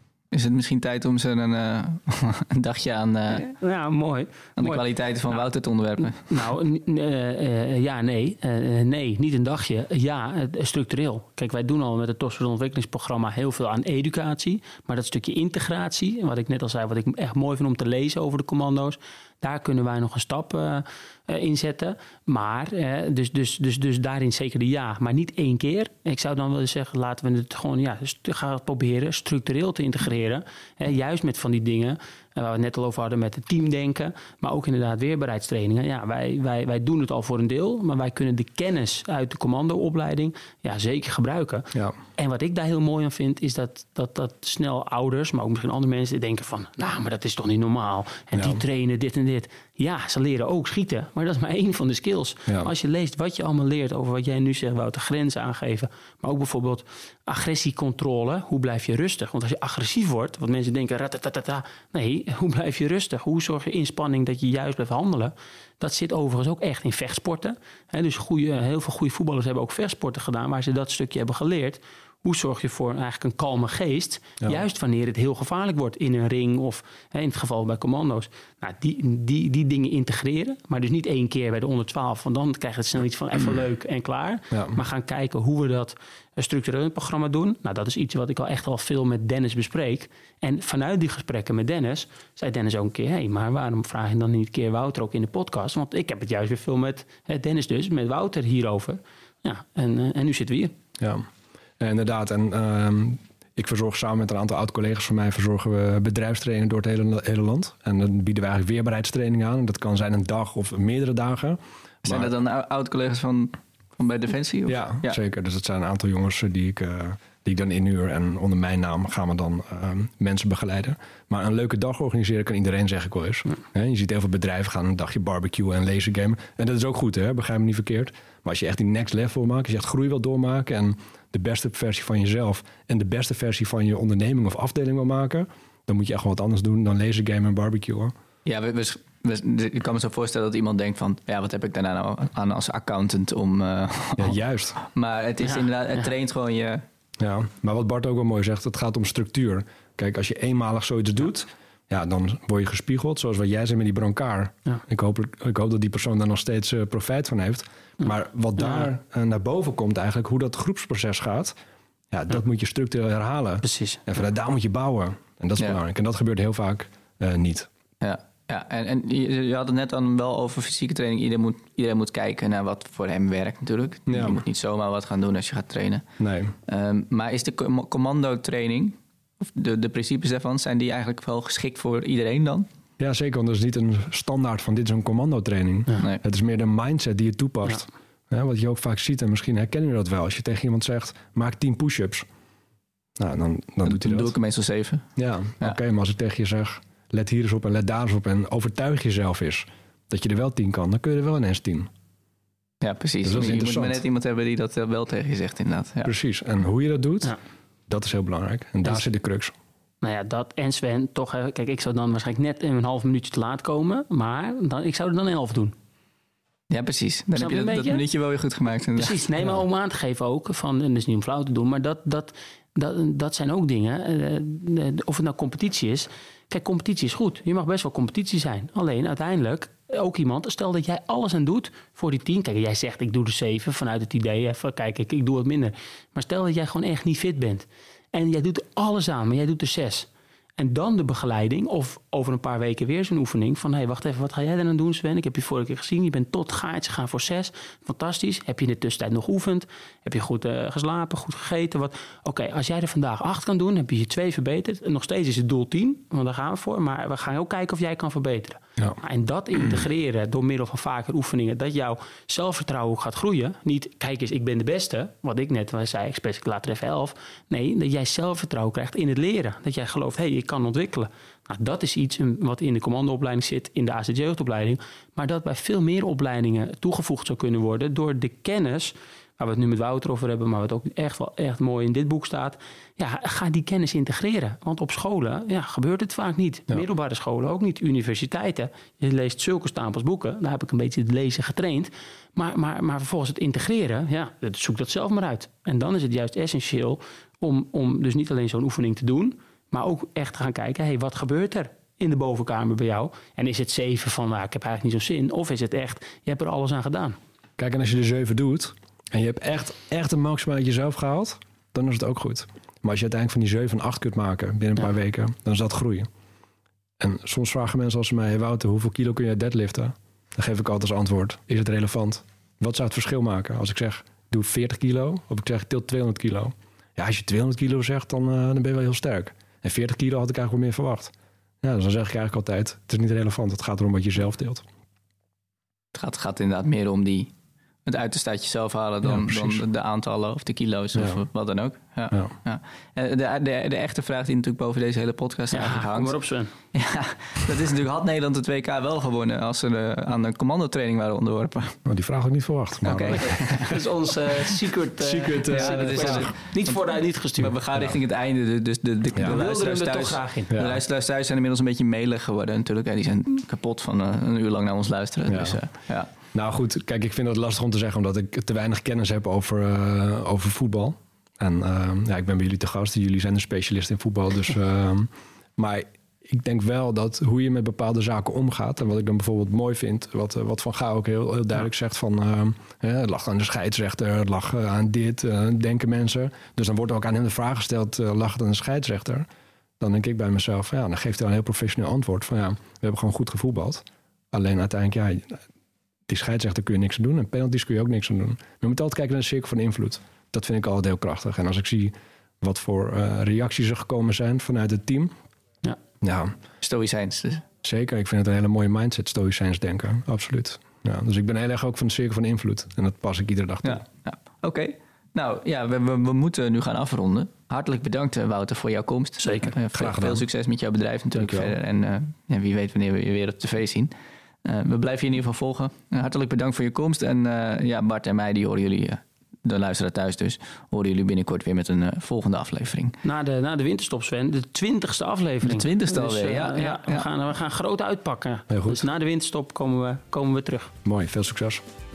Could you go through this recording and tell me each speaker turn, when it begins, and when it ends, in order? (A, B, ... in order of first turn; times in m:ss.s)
0:00.3-0:03.5 A
0:03.4-0:04.8 B
0:04.6-0:06.5 A
0:06.2-1:40.7 B
0:48.3-0:48.6 C
1:24.5-1:24.8 C
1:41.0-1:41.3 C
1:41.8-1:52.3 C
1:52.0-1:55.2 A
1:54.7-2:18.1 C
2:18.4-2:26.8 A
2:24.2-2:24.8 C
2:27.2-2:41.6 C
2:38.6-2:38.9 B
2:42.1-2:47.7 C
2:43.6-2:44.0 B
2:48.0-2:56.0 A
2:54.1-2:54.4 C
2:56.2-2:56.6 C
2:56.7-3:02.7 A
3:03.0-3:12.3 C
3:13.2-3:14.3 C
3:13.8-3:15.1 A
3:15.2-3:21.9 C
3:22.8-3:26.1 A
3:23.2-3:24.0 C
3:26.0-3:27.4 C
3:27.9-3:29.5 C
3:30.0-3:35.8 B
3:36.7-3:39.2 A
3:37.4-3:38.0 B
3:39.0-5:07.2 B
5:07.6-5:16.1 C
5:17.0-5:34.6 C
5:35.9-5:37.3 A
5:37.8-5:46.2 A
5:39.0-5:39.6 C
5:41.0-5:41.2 C
5:45.5-5:46.5 B
5:46.7-5:51.8 A
5:51.9-5:53.6 C
5:52.8-5:53.8 A
5:53.0-5:57.6 B
5:55.0-5:56.3 C
5:55.5-5:56.8 A
5:57.4-6:06.1 A
5:59.2-5:59.4 C
5:59.2-6:00.5 B
6:00.5-6:00.8 C
6:05.3-6:05.6 C
6:06.3-6:29.3 C
6:29.8-6:35.4 C
6:36.1-6:45.1 C
6:46.0-6:46.4 C
6:46.6-6:47.4 A
6:47.6-6:53.8 C
6:53.6-7:03.9 A
6:59.7-7:00.2 C
7:01.1-7:01.6 C
7:04.4-7:13.0 A
7:13.0-7:20.7 B
7:15.4-7:17.1 A
7:18.5-7:18.8 C
7:20.8-7:21.6 C